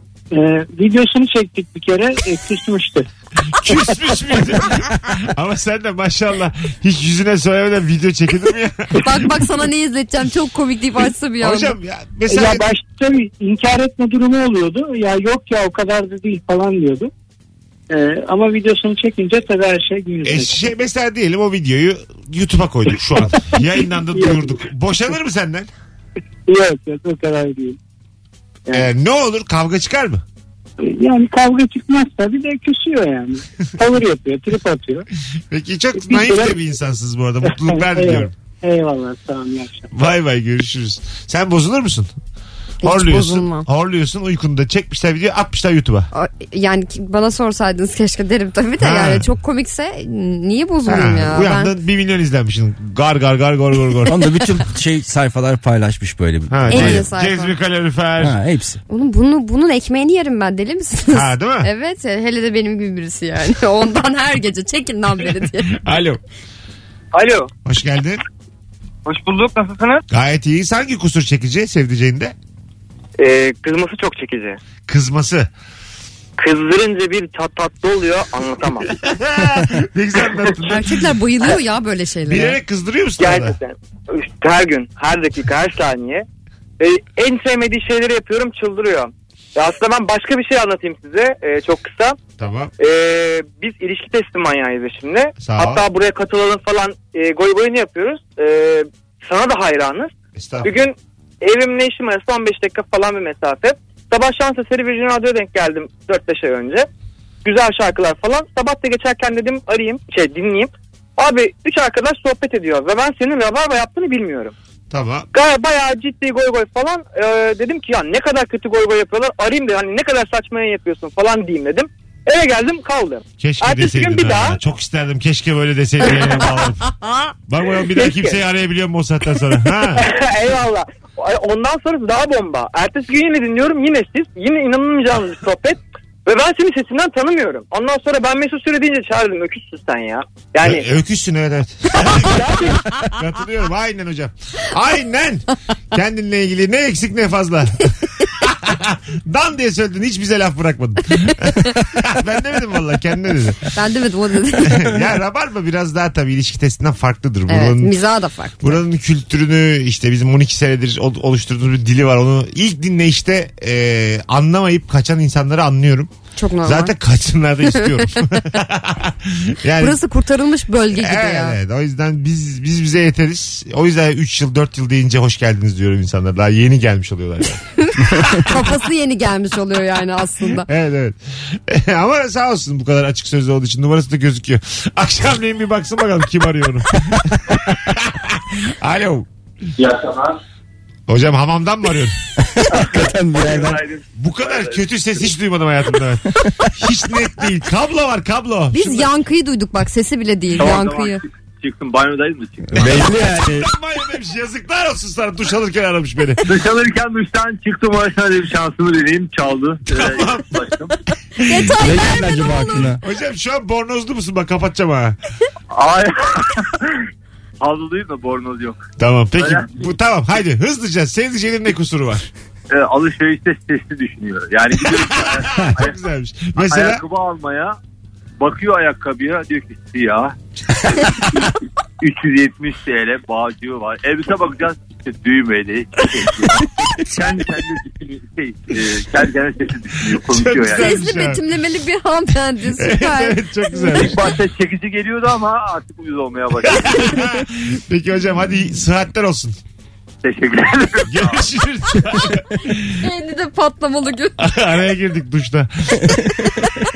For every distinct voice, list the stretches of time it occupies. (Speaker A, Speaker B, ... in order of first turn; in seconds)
Speaker A: 0.3-3.1, 12.3-17.1, 17.9-20.6, 24.1-24.6, 26.5-27.8, 30.8-35.1, 36.0-36.6, 37.4-39.9
Speaker B: 3.5-9.4, 11.4-12.7, 20.2-25.7, 28.7-30.2, 35.5-38.3, 39.9-42.1, 42.8-46.1, 48.8-49.3, 50.9-54.1, 56.5-58.4, 61.1-61.7, 65.8-66.2, 67.7-68.2, 70.1-72.3, 74.9-75.5, 79.0-81.1, 82.3-83.6, 92.4-92.7, 95.4-95.8, 100.4-100.7, 114.9-115.3, 123.4-126.9, 127.5-130.1, 140.6-153.7, 154.6-157.9, 158.6-166.1, 166.6-170.0, 170.9-177.6, 180.6-189.3, 191.1-192.2, 194.2-199.1, 202.8-206.4, 209.9-210.6, 213.0-215.2, 219.0-222.3, 224.9-227.0, 240.3-241.4, 242.8-244.2, 246.7-249.6, 251.1-253.0, 254.4-256.3
Speaker C: 9.0-11.8, 42.8-43.7, 46.1-51.7, 56.7-57.5, 58.9-65.9, 80.7-82.6, 153.8-155.0, 157.5-158.8, 166.4-166.9, 169.8-171.6, 177.8-180.7, 198.7-201.2, 211.4-213.0, 240.7-243.4, 253.0-254.4
Speaker D: 54.1-57.1, 58.2-58.8, 192.4-193.8, 202.7-203.7, 211.8-213.0
Speaker E: 67.1-67.5, 69.1-70.0, 73.2-74.6, 76.4-78.9, 83.2-86.3, 86.8-92.2, 92.8-100.1, 100.6-106.9, 107.4-114.5, 115.3-124.6, 128.0-128.4, 130.0-140.9, 142.2-142.8
Speaker F: 192.7-194.8, 200.6-203.3, 206.5-211.0, 215.7-216.8, 217.6-218.8, 219.4-219.9, 222.7-226.0, 226.6-227.8, 228.4-230.3, 230.9-231.4, 232.0-241.0, 243.9-247.1, 250.2-251.5